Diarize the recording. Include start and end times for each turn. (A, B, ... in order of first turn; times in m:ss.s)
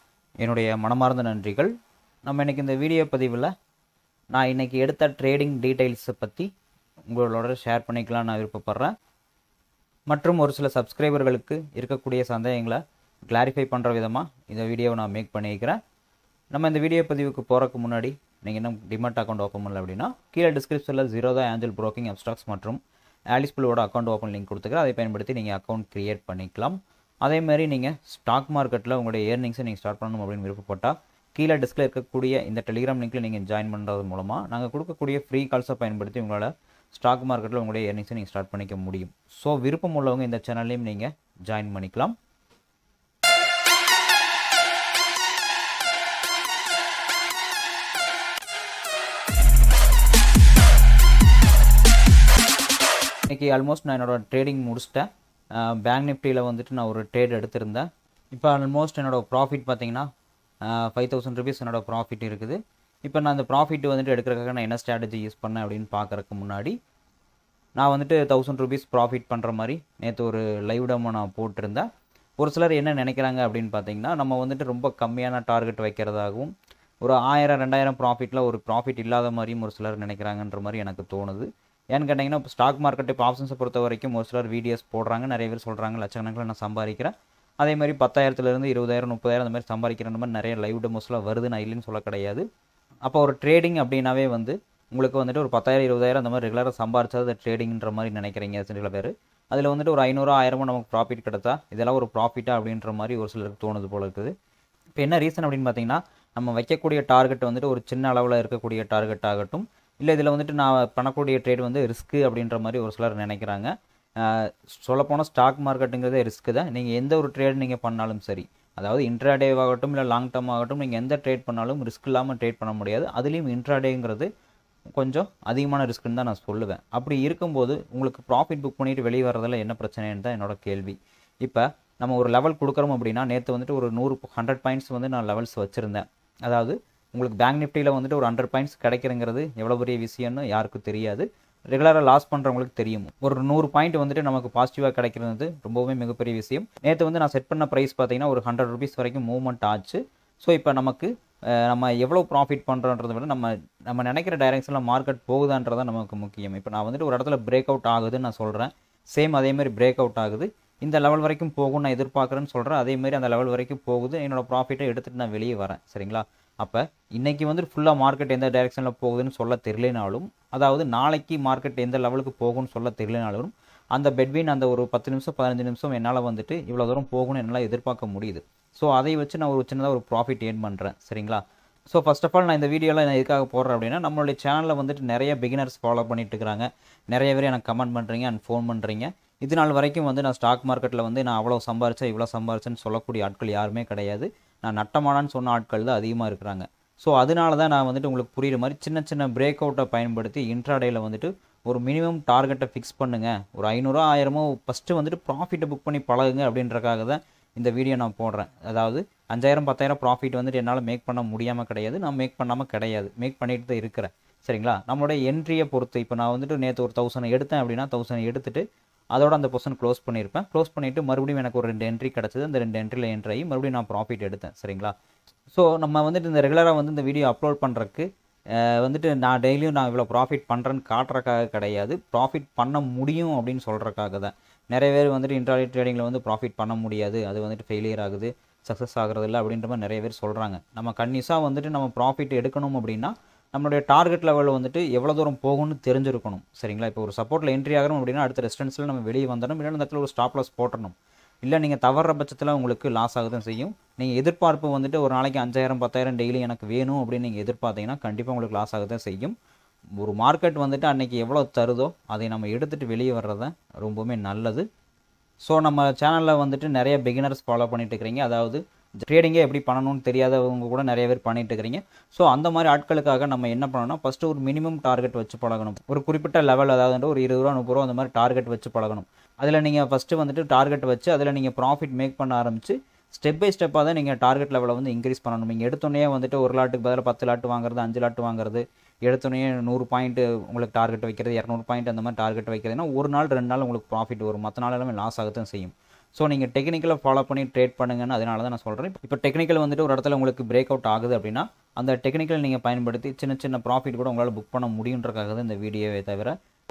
0:00.4-0:01.7 A
0:02.2-0:03.5 A
0:04.3-0:06.5 A
0:07.1-0:08.9 A
0:10.1-0:15.8 A
0:16.5-0:22.8 A
0:23.3-0:42.1 A
0:53.3-1:00.1 A
1:00.6-1:06.8 A
1:07.8-1:11.9 A
1:12.4-1:32.5 A
1:33.0-1:44.3 A
1:45.0-2:04.3 A
2:05.0-3:38.6 A
3:39.1-3:44.9 A
3:45.5-4:19.3 A
4:20.0-4:24.6 A
4:25.4-5:06.3 A